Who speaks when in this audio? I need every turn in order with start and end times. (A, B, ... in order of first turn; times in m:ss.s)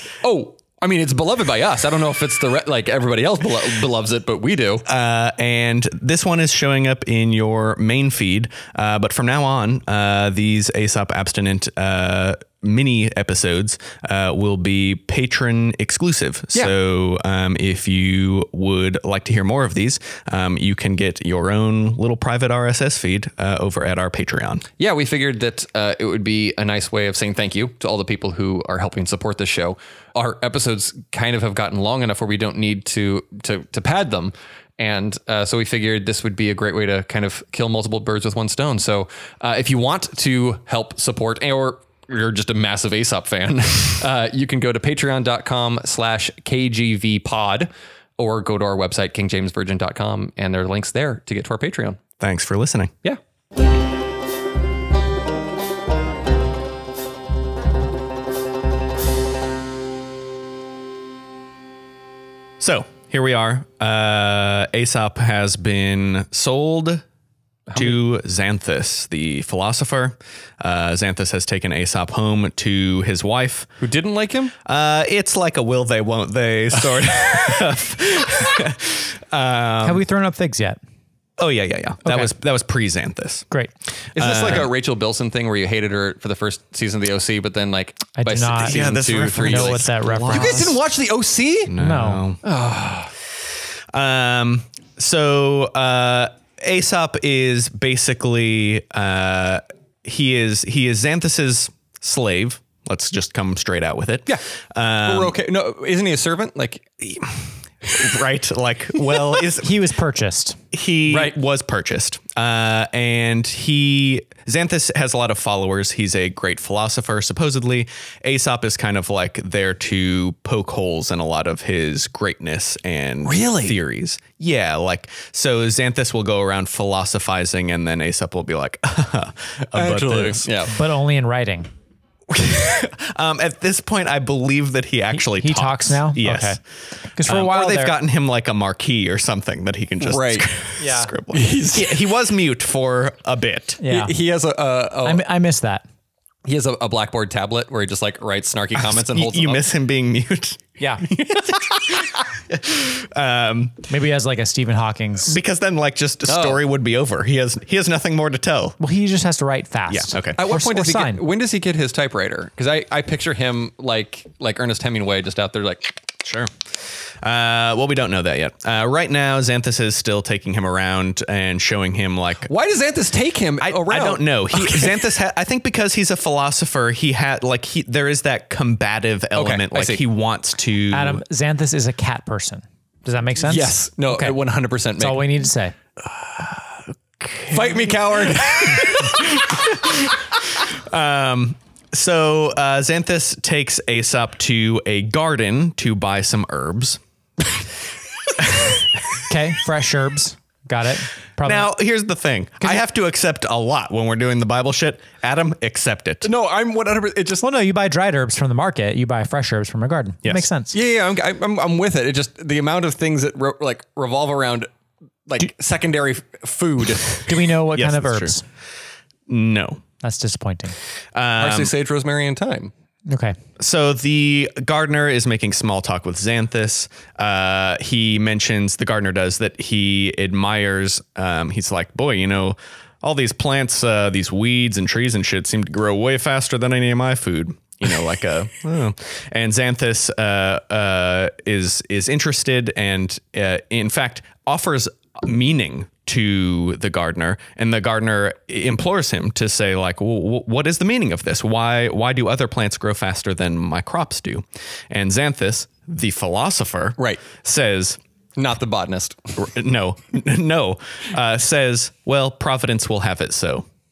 0:00.2-0:04.8 A
0:04.8-0:24.6 B
0:24.8-0:52.0 A
0:52.2-0:52.9 B
1:02.6-1:07.0 B
1:07.7-1:08.0 A
1:07.7-1:13.7 B
1:13.8-1:14.5 A
1:14.6-1:20.0 B
1:19.8-1:20.8 C
1:21.4-1:23.5 B
1:22.0-1:22.3 C
1:24.1-1:24.7 B
1:24.1-1:31.7 A
1:28.2-1:30.8 C
1:28.6-1:30.8 B
1:31.7-1:32.4 B
1:31.8-1:32.2 C
1:32.4-1:33.1 A
1:33.9-1:45.4 B
1:45.0-1:46.8 A
1:47.8-1:49.7 B
1:49.6-1:50.6 C
1:50.7-2:10.5 B
1:51.1-1:51.4 A
2:03.2-2:03.7 A
2:09.7-2:10.7 A
2:10.7-2:11.7 C
2:12.3-2:16.6 B
2:15.1-2:16.6 C
2:17.1-2:18.0 C
2:17.2-2:23.8 B
2:20.0-2:20.4 A
2:20.8-2:21.1 C
2:21.3-2:22.0 A
2:23.8-2:24.1 C
2:23.9-2:25.2 A
2:25.0-2:25.8 C
2:26.4-2:29.6 A
2:28.8-2:33.9 B
2:30.8-2:31.0 C
2:33.9-2:35.4 C
2:35.2-2:38.8 B
2:36.3-2:36.6 A
2:38.8-2:41.2 C
2:39.9-2:40.4 B
2:40.4-2:45.9 A
2:46.2-2:46.5 B
2:47.2-2:52.5 B
2:52.5-2:55.1 A
2:53.6-3:01.2 B
2:59.3-3:00.0 A
3:00.9-3:04.4 C
3:03.4-3:05.2 A
3:05.0-3:05.7 C
3:06.3-3:06.7 B
3:07.2-3:07.9 B
3:07.5-3:09.5 A
3:08.5-3:17.0 B
3:18.4-3:18.8 B
3:19.3-3:21.7 C
3:21.4-3:26.3 B
3:26.2-3:27.4 A
3:27.4-3:30.8 C
3:30.7-3:34.7 A
3:35.3-3:37.4 A
3:37.3-3:38.4 C
3:37.7-3:38.3 B
3:39.3-3:39.8 B
3:40.0-3:40.8 C
3:41.1-3:41.7 B
3:41.4-3:42.7 A
3:43.1-3:43.4 C
3:43.6-4:18.0 B
4:17.0-4:17.2 A
4:18.4-4:19.3 A
4:19.4-4:23.6 B